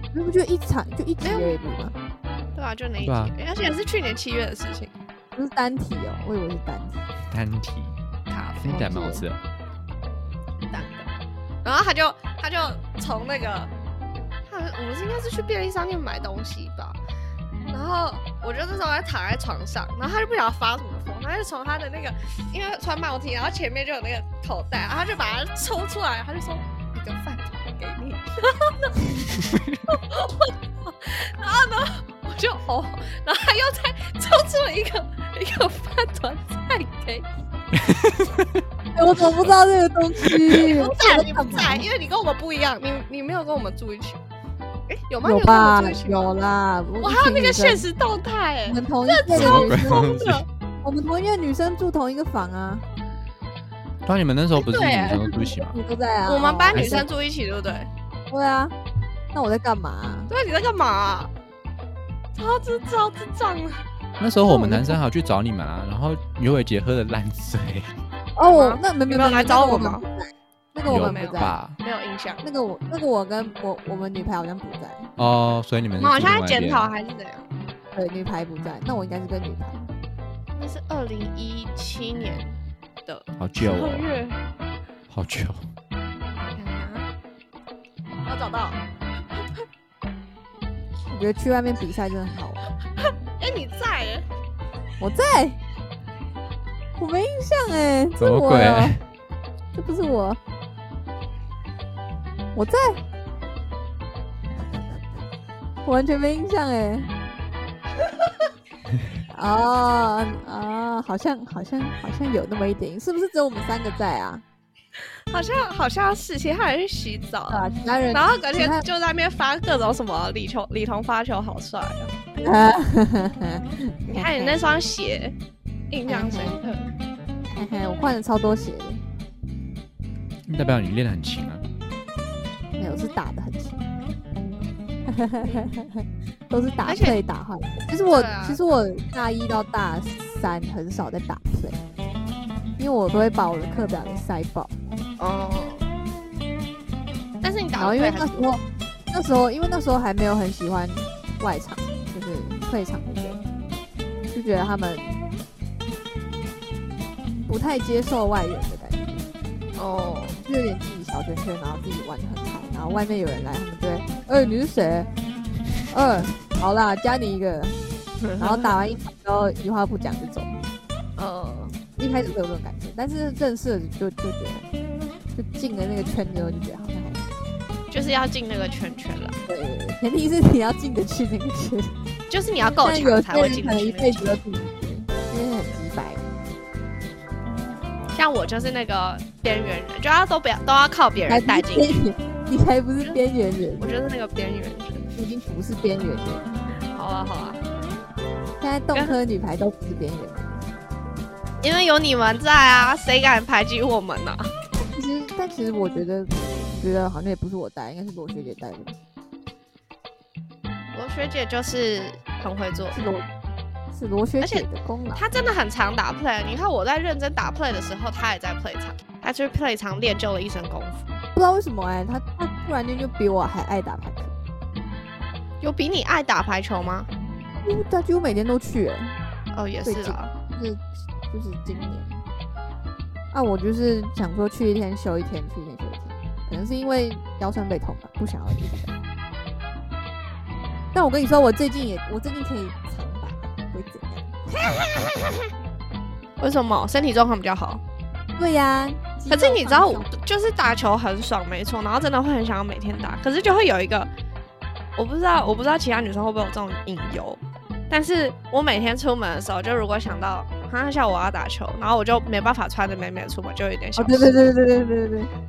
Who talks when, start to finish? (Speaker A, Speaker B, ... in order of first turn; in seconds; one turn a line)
Speaker A: 0.1-1.9
Speaker B: 1.2-1.5
Speaker B: 2.5-4.9
Speaker C: 3.0-3.3
Speaker A: 5.3-7.0
Speaker C: 7.3-7.9
Speaker B: 8.3-9.0
Speaker C: 8.6-9.4
Speaker A: 8.7-9.2
Speaker B: 10.7-11.1
Speaker B: 11.6-13.7
Speaker B: 14.5-17.0
Speaker B: 17.7-29.0
Speaker C: 29.4-29.8
Speaker B: 29.9-37.3
Speaker C: 37.7-38.6
Speaker A: 38.9-41.9
Speaker B: 40.5-44.2
Speaker B: 44.9-46.4
Speaker A: 45.2-47.9
Speaker B: 47.0-50.4
Speaker A: 48.7-50.2
Speaker C: 49.3-50.4
Speaker A: 50.8-52.8
Speaker C: 54.0-55.8
Speaker B: 54.5-55.3
Speaker A: 55.3-57.1
Speaker B: 56.2-57.9
Speaker C: 56.7-57.0
Speaker A: 58.3-58.7
Speaker A: 59.3-60.3
Speaker B: 60.3-61.3
Speaker B: 62.4-63.8
Speaker C: 64.2-67.9
Speaker A: 64.4-65.0
Speaker A: 68.3-71.6
Speaker B: 68.4-70.0
Speaker C: 70.8-71.8
Speaker B: 70.9-72.4
Speaker A: 72.4-75.1
Speaker C: 75.2-76.9
Speaker B: 76.0-77.5
Speaker A: 77.9-79.9
Speaker B: 80.6-84.4
Speaker C: 83.4-84.1
Speaker C: 85.1-85.6
Speaker B: 86.3-87.0
Speaker B: 88.2-88.8
Speaker A: 91.1-92.7
Speaker B: 93.0-94.2
Speaker A: 95.0-95.6
Speaker A: 97.0-99.0
Speaker C: 98.2-99.0
Speaker A: 99.7-100.4
Speaker A: 102.5-103.0
Speaker A: 105.8-107.1
Speaker A: 109.3-114.4
Speaker B: 115.3-122.1
Speaker A: 117.5-118.8
Speaker A: 122.4-124.8
Speaker B: 124.1-125.3
Speaker B: 125.9-126.8
Speaker A: 126.1-126.6
Speaker A: 127.5-129.0
Speaker C: 130.5-131.6
Speaker A: 132.8-133.9
Speaker A: 135.1-141.8
Speaker B: 136.8-137.2
Speaker B: 138.1-138.6
Speaker A: 142.8-144.8
Speaker B: 145.2-145.8
Speaker B: 147.4-148.5
Speaker A: 147.8-153.4
Speaker A: 154.3-155.2
Speaker A: 157.4-159.3
Speaker B: 159.8-160.4
Speaker A: 160.4-165.1
Speaker A: 165.9-167.8
Speaker B: 168.2-168.7
Speaker A: 168.4-170.6
Speaker B: 171.2-171.8
Speaker A: 172.0-174.7
Speaker A: 175.3-177.3
Speaker B: 177.9-179.3
Speaker A: 179.4-181.9
Speaker B: 182.3-184.4
Speaker A: 182.8-186.2
Speaker B: 188.1-192.0
Speaker A: 191.2-193.9
Speaker B: 193.8-195.1
Speaker A: 195.2-196.6
Speaker B: 196.9-197.6
Speaker A: 198.6-200.6
Speaker B: 201.6-204.5
Speaker A: 204.8-208.9
Speaker B: 210.9-213.0
Speaker A: 212.9-213.2
Speaker A: 213.9-215.2
Speaker B: 214.4-221.2
Speaker A: 221.3-224.3
Speaker B: 225.6-227.1
Speaker A: 227.6-229.2
Speaker B: 229.5-230.3
Speaker A: 229.8-232.2
Speaker A: 233.3-238.9
Speaker A: 240.9-244.9
Speaker B: 246.4-247.8
Speaker A: 248.4-250.1
Speaker B: 249.3-254.1
Speaker B: 254.9-264.5
Speaker A: 264.0-265.3